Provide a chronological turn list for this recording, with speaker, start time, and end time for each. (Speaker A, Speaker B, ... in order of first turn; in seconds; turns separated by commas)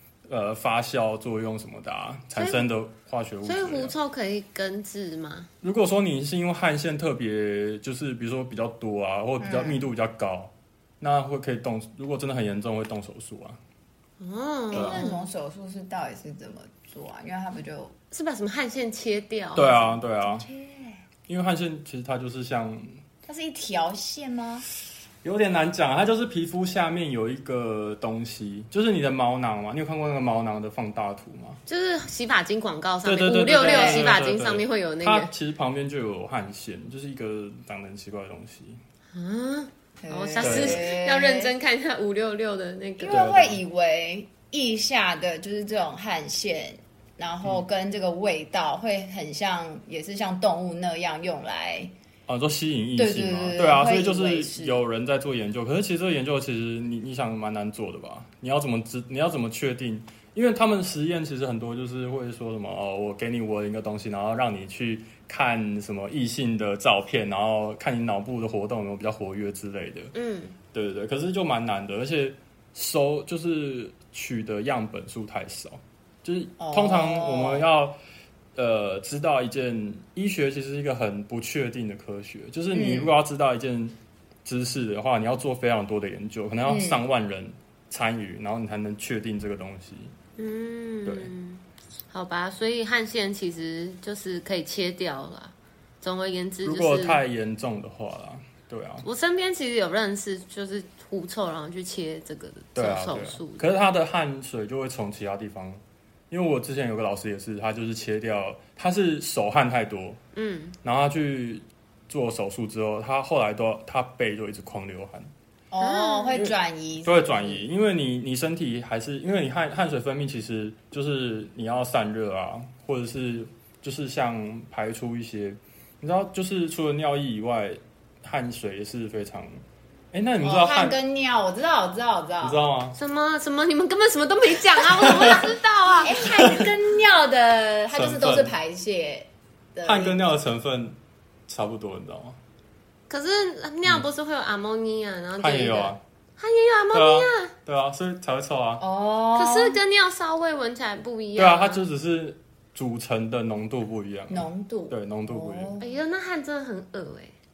Speaker A: 0.3-3.9, Speaker B: 2.4-2.7, Speaker B: 3.4-5.5, Speaker A: 5.6-13.6, Speaker C: 9.4-9.9, Speaker B: 14.2-15.3, Speaker C: 14.7-17.9, Speaker A: 14.7-15.1, Speaker B: 18.1-19.8, Speaker A: 19.6-20.5, Speaker C: 19.7-21.0, Speaker A: 21.3-23.0, Speaker C: 23.3-24.6, Speaker A: 25.2-31.6, Speaker B: 31.6-35.3, Speaker A: 33.0-38.8, Speaker C: 33.6-34.2, Speaker B: 39.1-43.3, Speaker C: 40.0-41.5, Speaker A: 40.4-40.9, Speaker C: 43.0-51.9, Speaker A: 43.0-43.6, Speaker A: 52.3-70.1, Speaker C: 53.0-54.8, Speaker B: 70.1-70.5, Speaker A: 70.7-78.0, Speaker C: 76.6-77.7, Speaker A: 78.5-90.1, Speaker C: 82.7-83.1, Speaker C: 86.7-87.0, Speaker B: 90.4-97.2, Speaker A: 96.6-99.0, Speaker B: 99.0-103.6, Speaker A: 102.7-110.2, Speaker B: 110.3-110.8, Speaker A: 110.8-115.3, Speaker C: 115.7-117.7, Speaker B: 115.8-116.4, Speaker A: 116.3-129.6, Speaker A: 130.1-131.0, Speaker C: 130.4-132.6, Speaker A: 132.4-132.9, Speaker B: 132.9-136.3, Speaker C: 135.1-135.4, Speaker C: 136.0-140.2, Speaker A: 136.2-136.7, Speaker A: 137.9-138.5, Speaker A: 139.8-140.9, Speaker A: 141.5-142.4, Speaker B: 143.1-147.5, Speaker A: 145.4-146.0, Speaker A: 146.9-148.8, Speaker C: 148.8-149.8, Speaker B: 149.3-151.9, Speaker A: 151.3-155.8, Speaker C: 154.3-155.9, Speaker B: 155.8-157.3